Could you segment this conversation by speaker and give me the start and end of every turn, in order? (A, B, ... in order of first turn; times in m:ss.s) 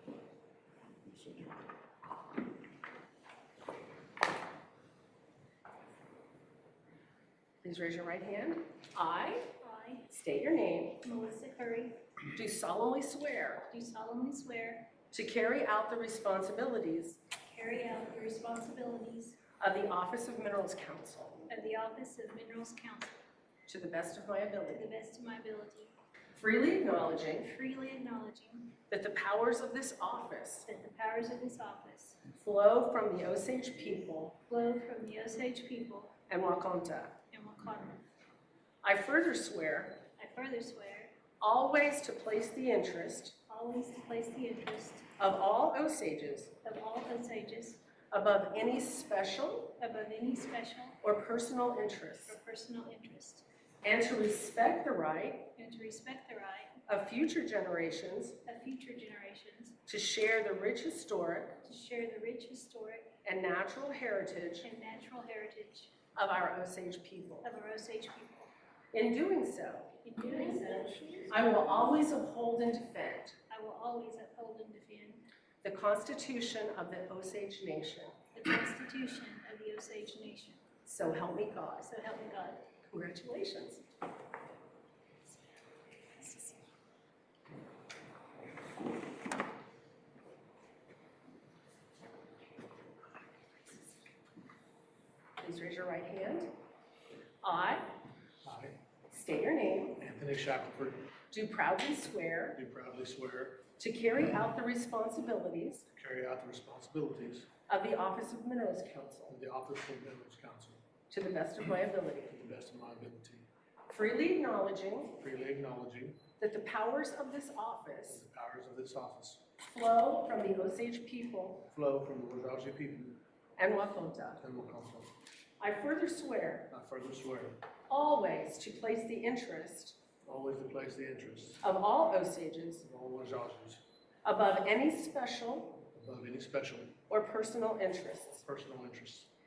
0:07.6-0:09.5 A
0:09.6-0:10.1 B
0:10.1-0:11.0 A
0:11.0-0:12.0 B
0:12.3-0:13.7 A
0:13.7-0:14.9 B
0:15.1-0:17.2 A
0:17.5-0:19.4 B
0:19.6-0:21.5 A
0:21.5-0:23.2 B
0:23.7-0:24.9 A
0:24.7-0:25.9 B
0:26.3-0:27.5 A
0:27.4-0:28.8 B
0:28.9-0:30.7 A
0:30.7-0:32.2 B
0:32.3-0:34.4 A
0:34.5-0:36.1 B
0:36.3-0:37.2 A
0:37.3-0:38.0 B
0:38.8-0:40.0 A
0:40.2-0:41.1 B
0:41.4-0:43.4 A
0:43.5-0:45.1 B
0:45.2-0:46.5 A
0:46.6-0:47.8 B
0:48.1-0:49.8 A
0:49.8-0:51.0 B
0:51.0-0:52.4 A
0:52.3-0:53.5 B
0:53.8-0:55.5 A
0:55.6-0:56.8 B
0:56.9-0:58.4 A
0:58.4-0:59.8 B
0:59.9-1:01.6 A
1:01.6-1:03.1 B
1:03.2-1:04.7 A
1:04.6-1:06.0 B
1:06.2-1:07.5 A
1:07.4-1:08.5 B
1:08.9-1:13.4 A
1:10.0-1:11.8 B
1:13.5-1:15.3 B
1:15.6-1:18.2 A
1:18.3-1:20.6 B
1:20.8-1:21.9 A
1:21.8-1:22.6 B
1:22.9-1:23.8 A
1:35.4-1:36.5 A
1:37.4-1:37.9 A
1:38.4-1:38.8 C
1:39.1-1:40.0 A
1:40.0-1:41.1 C
1:41.3-1:42.6 A
1:42.6-1:43.6 C
1:43.8-1:45.8 A
1:45.9-1:47.5 C
1:47.7-1:49.3 A
1:49.3-1:50.8 C
1:51.1-1:52.4 A
1:52.3-1:53.5 C
1:53.9-1:55.2 A
1:55.2-1:56.2 C
1:56.4-1:58.2 A
1:58.1-1:59.4 C
1:59.6-2:01.7 A
2:01.7-2:03.2 C
2:03.6-2:04.4 A
2:04.4-2:05.1 C
2:05.6-2:06.7 A
2:06.7-2:07.6 C
2:07.9-2:10.0 A
2:10.2-2:11.6 C
2:11.6-2:12.8 A
2:12.8-2:13.8 C
2:14.2-2:15.9 A
2:15.9-2:17.0 C
2:17.1-2:18.4 A
2:18.4-2:19.3 C